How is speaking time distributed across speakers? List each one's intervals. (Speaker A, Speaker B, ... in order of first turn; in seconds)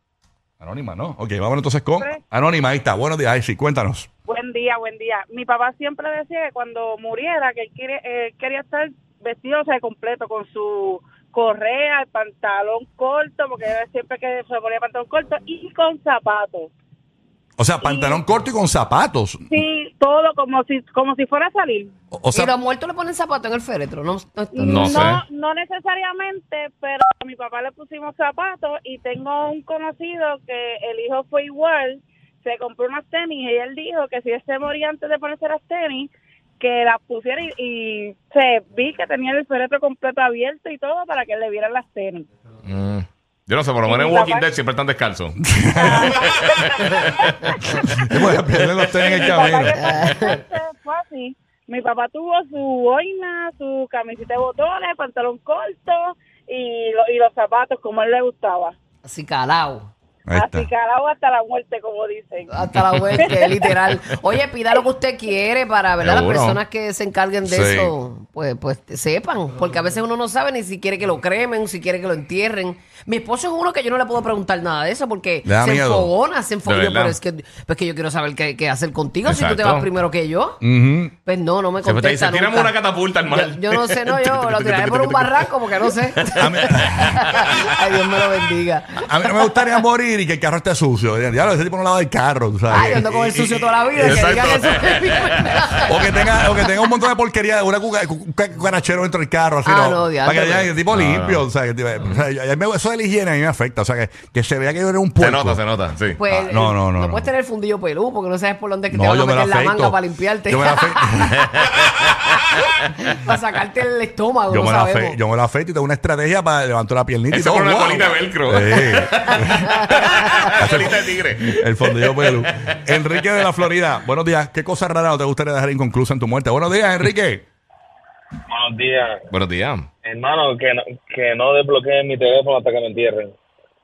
Speaker A: 0.6-4.1, 17.6-19.4, 22.1-22.5, 45.4-46.2, 47.7-49.9, 60.3-60.7, 67.5-67.9, 75.4-76.1, 80.6-81.1, 84.4-85.4, 86.3-87.4, 89.0-94.2, 95.8-105.6, 106.3-107.3, 108.9-111.5, 114.5-120.0, 120.5-127.5
Speaker B: 4.3-16.7, 17.8-18.2, 19.5-21.9, 24.5-42.3, 43.8-44.5, 45.8-47.7, 48.9-58.7, 60.3-63.7
Speaker C: 22.3-25.1, 49.8-50.4, 59.0-59.9, 62.5-80.6, 81.2-82.7, 83.3-89.6, 92.7-96.6, 99.6-100.7, 106.2-111.7, 112.3-115.2, 119.6-120.4
Speaker D: 24.6-25.2, 42.6-45.4, 46.0-47.3, 66.0-66.6, 76.7-77.2, 79.3-79.8, 81.8-84.8, 86.9-87.5, 94.0-95.8, 100.9-101.4, 105.2-106.2, 117.3-122.7, 129.3-129.9
Speaker E: 128.5-129.2, 130.0-133.3